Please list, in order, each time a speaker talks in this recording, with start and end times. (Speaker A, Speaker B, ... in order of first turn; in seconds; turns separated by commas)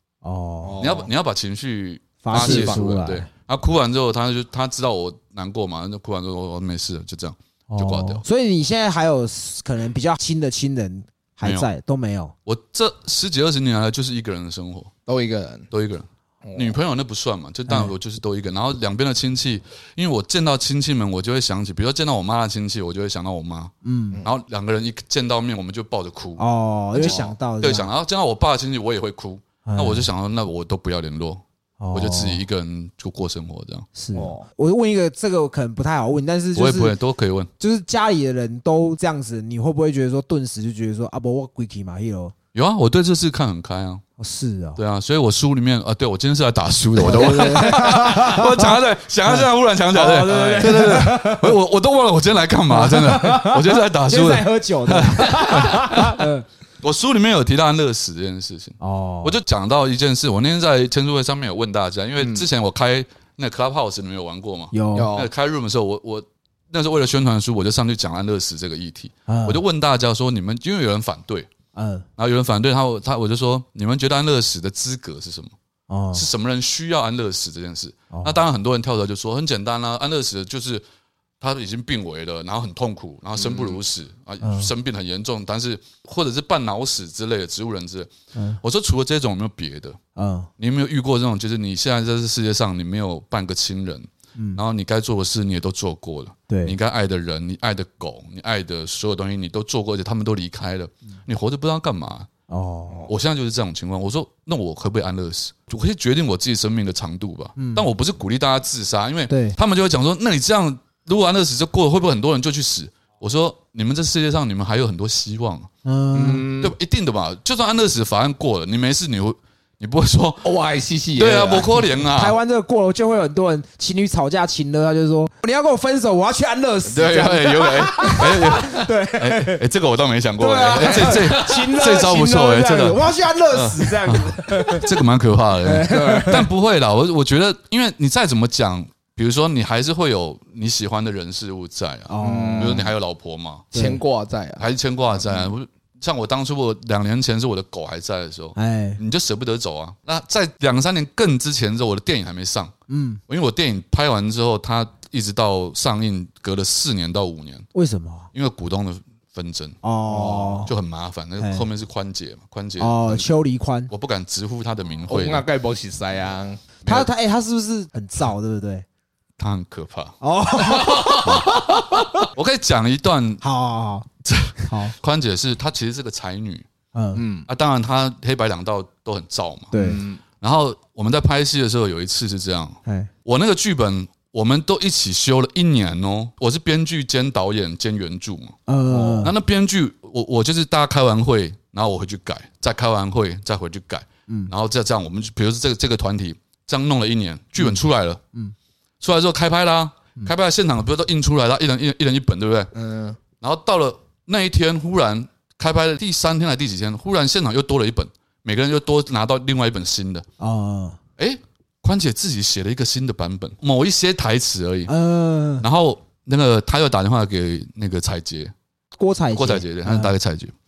Speaker A: 0.2-0.8, Speaker B: 0.6-1.1, Speaker C: 0.8-8.2, Speaker A: 2.2-3.3, Speaker B: 2.3-2.8, Speaker A: 7.7-12.3, Speaker C: 11.4-11.7, Speaker C: 12.4-14.9, Speaker B: 15.1-15.7, Speaker C: 15.7-26.4, Speaker B: 16.4-16.8, Speaker A: 17.7-17.9, Speaker A: 23.8-24.2, Speaker A: 26.4-27.9, Speaker C: 26.9-31.4, Speaker A: 29.6-30.1, Speaker A: 31.8-32.4, Speaker C: 31.9-33.9, Speaker A: 33.9-36.9, Speaker B: 34.1-34.5, Speaker C: 36.5-37.5, Speaker A: 37.6-42.3, Speaker C: 42.5-44.0, Speaker A: 44.2-44.8, Speaker C: 44.8-56.3, Speaker A: 47.0-48.7, Speaker A: 49.2-51.6, Speaker A: 52.7-56.4, Speaker C: 56.8-71.5, Speaker A: 58.8-59.4, Speaker B: 62.2-62.5, Speaker A: 64.7-65.1, Speaker B: 64.9-65.3, Speaker A: 69.3-69.6, Speaker A: 71.7-72.0, Speaker C: 72.2-75.5, Speaker A: 75.9-76.3, Speaker C: 76.1-80.8, Speaker A: 78.1-78.4, Speaker C: 81.4-88.1, Speaker B: 83.4-83.8, Speaker A: 84.4-84.7, Speaker A: 88.3-88.6, Speaker C: 88.6-90.0, Speaker A: 90.2-90.5, Speaker C: 90.6-102.3, Speaker A: 96.5-96.8, Speaker A: 102.5-103.1, Speaker C: 103.1-115.7, Speaker A: 107.6-107.8, Speaker A: 109.3-109.5, Speaker A: 115.8-116.5, Speaker B: 116.1-116.8, Speaker C: 116.6-120.5, Speaker B: 120.4-121.9, Speaker C: 121.2-122.4, Speaker A: 122.1-129.6, Speaker C: 126.8-143.7, Speaker A: 130.4-134.9, Speaker B: 130.8-131.6, Speaker A: 135.6-136.4, Speaker B: 135.8-136.5, Speaker A: 142.1-142.9, Speaker B: 142.2-142.9, Speaker A: 143.7-144.0, Speaker B: 143.7-144.6, Speaker C: 144.6-152.7, Speaker A: 148.5-149.0, Speaker A: 152.9-153.2, Speaker C: 153.3-157.7, Speaker A: 157.7-158.3, Speaker C: 158.3-159.8, Speaker A: 159.8-160.7, Speaker B: 160.1-160.7, Speaker C: 160.7-163.3, Speaker A: 161.4-161.6, Speaker A: 162.8-163.9, Speaker C: 163.9-165.4, Speaker B: 165.1-166.6, Speaker A: 166.8-168.8, Speaker C: 169.4-170.2, Speaker A: 170.2-172.2, Speaker B: 170.6-171.6, Speaker C: 172.3-173.4, Speaker A: 173.4-174.1, Speaker C: 174.2-176.7, Speaker A: 174.6-174.9, Speaker A: 176.9-177.2, Speaker B: 177.1-177.5, Speaker C: 177.5-188.6, Speaker A: 179.7-180.0, Speaker B: 179.7-180.2, Speaker A: 182.8-183.1, Speaker A: 188.7-189.3, Speaker B: 188.9-189.3, Speaker C: 189.2-198.2, Speaker C: 199.0-202.7, Speaker B: 202.7-203.2, Speaker C: 203.4-210.2, Speaker A: 210.4-211.0, Speaker C: 211.2-214.9, Speaker A: 214.9-215.6, Speaker C: 215.6-218.5, Speaker A: 219.0-220.1, Speaker C: 219.3-220.5